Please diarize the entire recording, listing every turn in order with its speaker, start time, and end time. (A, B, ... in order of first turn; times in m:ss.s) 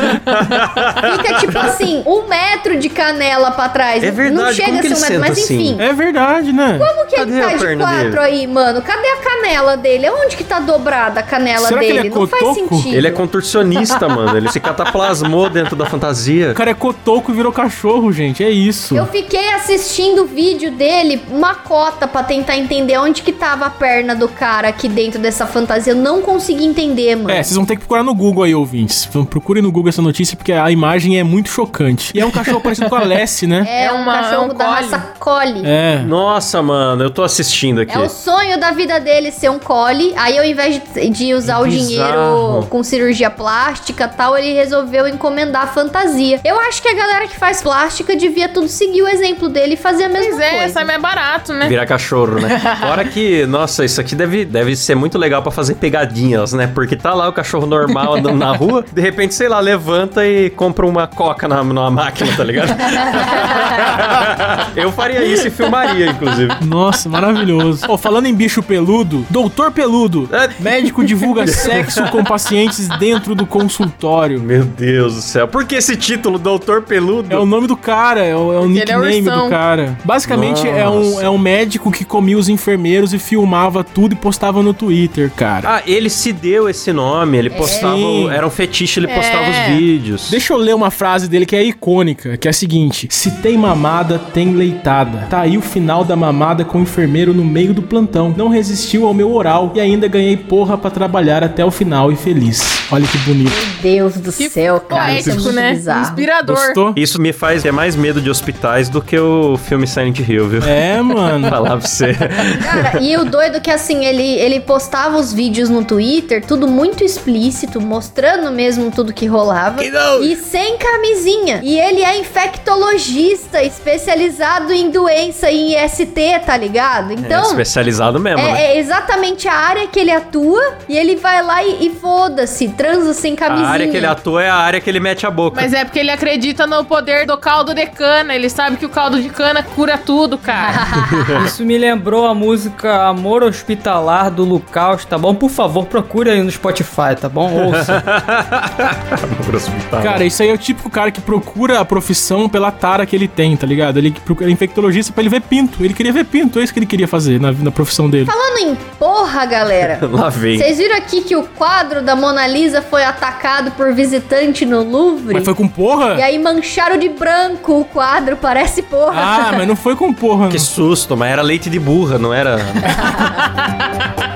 0:00.1-0:01.7 A
0:01.0-0:05.8 B
0:04.0-0:05.8 A
0:05.8-0:07.0 C
0:06.8-0:13.2 B
0:07.1-0:08.2 A
0:11.6-0:13.0 C
0:12.9-0:16.6 A
0:16.5-0:19.1 C
0:18.9-0:27.5 B
0:27.3-0:33.7 C
0:33.6-0:35.7 B
0:33.7-0:35.0 D
0:35.6-0:36.1 C
0:36.0-0:38.1 A
0:37.9-0:50.9 B
0:41.4-0:42.7 A
0:50.2-0:51.8 D
0:51.6-1:06.6 A
0:52.4-0:52.8 D
1:06.6-1:14.4 C
1:10.3-1:12.2 A
1:14.3-1:17.5 A
1:17.3-1:25.7 C
1:18.6-1:19.6 D
1:20.2-1:21.4 A
1:25.6-1:30.4 A
1:27.5-1:28.0 B
1:27.6-1:28.4 C
1:29.0-1:29.8 D
1:30.3-1:43.6 C
1:43.4-1:46.2 B
1:44.4-1:46.8 D
1:44.9-1:45.6 A
1:46.4-1:47.0 C
1:46.9-1:53.0 A
1:50.6-1:51.6 C
1:52.6-2:07.6 B
1:59.8-2:00.4 A
2:07.2-2:08.6 A
2:08.3-2:14.2 B
2:13.5-2:15.7 A
2:15.5-2:20.8 D
2:20.5-2:20.8 E
2:20.7-2:21.5 B
2:21.0-2:21.5 A
2:21.3-2:28.0 E
2:27.5-2:30.2 A
2:30.0-2:38.3 C
2:38.2-2:45.5 B
2:39.8-2:40.7 A
2:45.3-2:46.2 C
2:46.1-2:49.6 B
2:49.1-2:50.7 C
2:50.5-2:53.0 A
2:53.0-2:53.2 B
2:53.0-2:53.3 D